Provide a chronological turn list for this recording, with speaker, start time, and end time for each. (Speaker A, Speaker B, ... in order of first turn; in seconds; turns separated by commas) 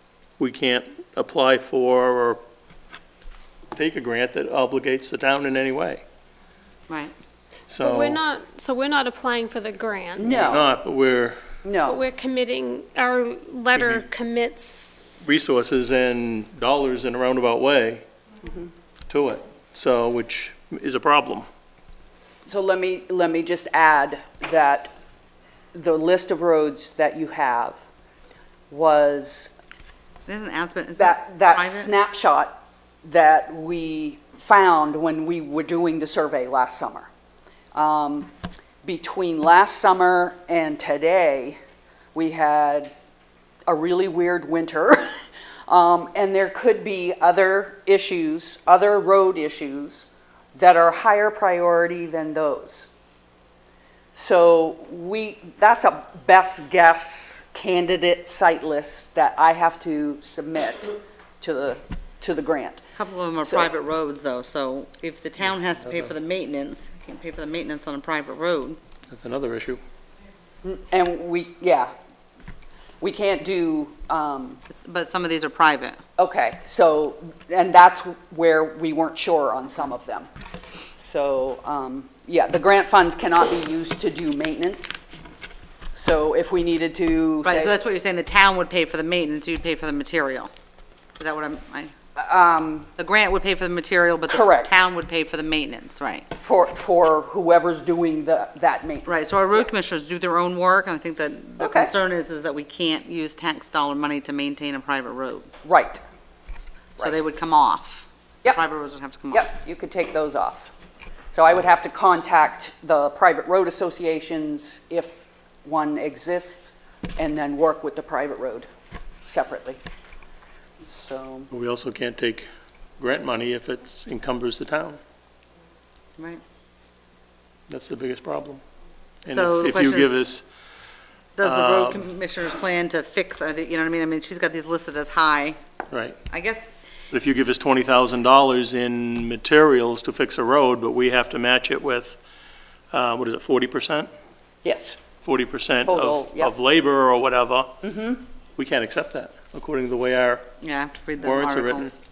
Speaker A: 0.4-2.4, Speaker A: 3.7-6.0, Speaker A: 7.7-8.2, Speaker B: 7.8-10.3, Speaker C: 10.2-10.7, Speaker A: 10.2-11.4, Speaker C: 11.6-12.0, Speaker B: 11.9-15.3, Speaker A: 13.8-14.0, Speaker A: 15.2-18.1, Speaker A: 19.1-21.5, Speaker C: 22.5-24.9, Speaker C: 25.7-27.9, Speaker C: 28.7-29.5, Speaker D: 30.3-31.9, Speaker C: 31.0-37.1, Speaker C: 37.7-38.3, Speaker C: 38.8-41.6, Speaker C: 42.1-42.9, Speaker C: 43.7-52.9, Speaker C: 54.1-63.7, Speaker D: 63.0-68.8, Speaker A: 69.1-69.8, Speaker C: 70.6-71.9, Speaker C: 73.0-74.6, Speaker D: 74.7-76.0, Speaker C: 76.2-80.3, Speaker C: 81.0-85.0, Speaker C: 85.9-87.7, Speaker D: 87.4-90.5, Speaker D: 91.2-91.9, Speaker C: 92.2-92.9, Speaker D: 93.0-96.3, Speaker C: 94.3-94.7, Speaker C: 96.4-99.7, Speaker D: 99.0-105.5, Speaker C: 101.6-101.9, Speaker C: 105.6-106.0, Speaker D: 107.0-109.5, Speaker C: 109.3-110.7, Speaker C: 111.3-118.7, Speaker C: 119.3-119.8, Speaker C: 120.8-121.5, Speaker A: 121.5-122.5, Speaker A: 123.0-125.0, Speaker D: 126.2-126.4, Speaker A: 127.7-128.6, Speaker D: 129.2-130.1, Speaker A: 129.3-130.5, Speaker D: 131.4-135.6, Speaker A: 131.4-132.1, Speaker A: 135.9-136.2, Speaker D: 136.3-136.7, Speaker A: 137.1-142.2, Speaker A: 142.9-144.1, Speaker C: 144.6-145.0, Speaker A: 145.2-147.7, Speaker C: 145.8-146.5, Speaker C: 147.8-148.2, Speaker A: 148.6-150.5, Speaker D: 150.6-151.9, Speaker A: 151.2-151.9